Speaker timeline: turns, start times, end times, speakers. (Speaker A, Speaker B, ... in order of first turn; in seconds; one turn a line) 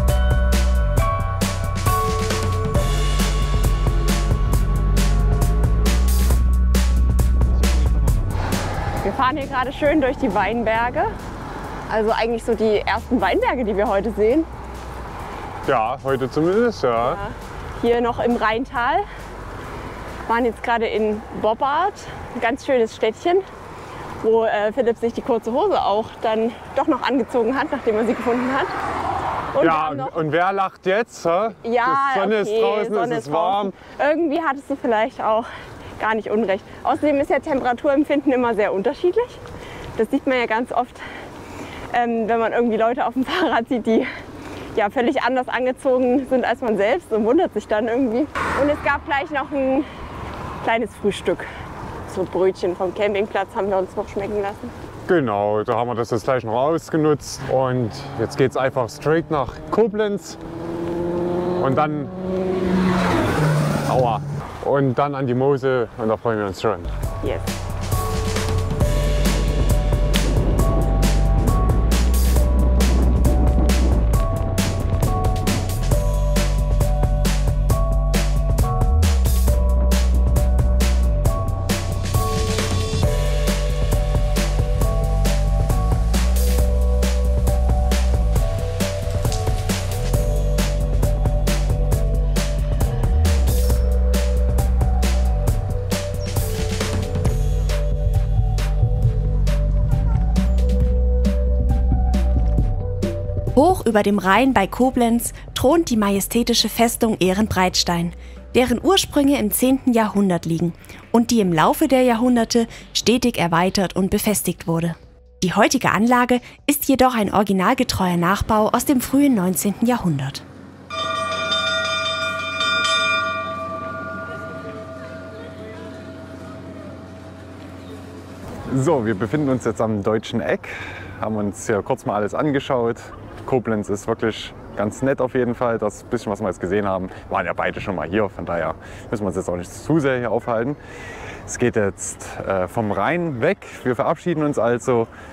Speaker A: 9.0-11.1
Speaker A: 11.9-14.5
Speaker B: 15.7-17.2
Speaker A: 17.0-19.1
Speaker A: 20.3-23.4
Speaker A: 24.2-28.8
Speaker A: 29.5-30.2
Speaker B: 29.6-33.8
Speaker A: 31.6-39.4
Speaker A: 40.0-41.0
Speaker A: 41.9-44.1
Speaker A: 44.8-49.9
Speaker A: 50.6-51.5
Speaker A: 52.1-54.7
Speaker B: 55.1-60.4
Speaker B: 61.6-62.1
Speaker B: 63.9-67.0
Speaker A: 67.2-67.5
Speaker C: 103.5-120.4
Speaker B: 128.7-140.8
Speaker B: 141.4-145.1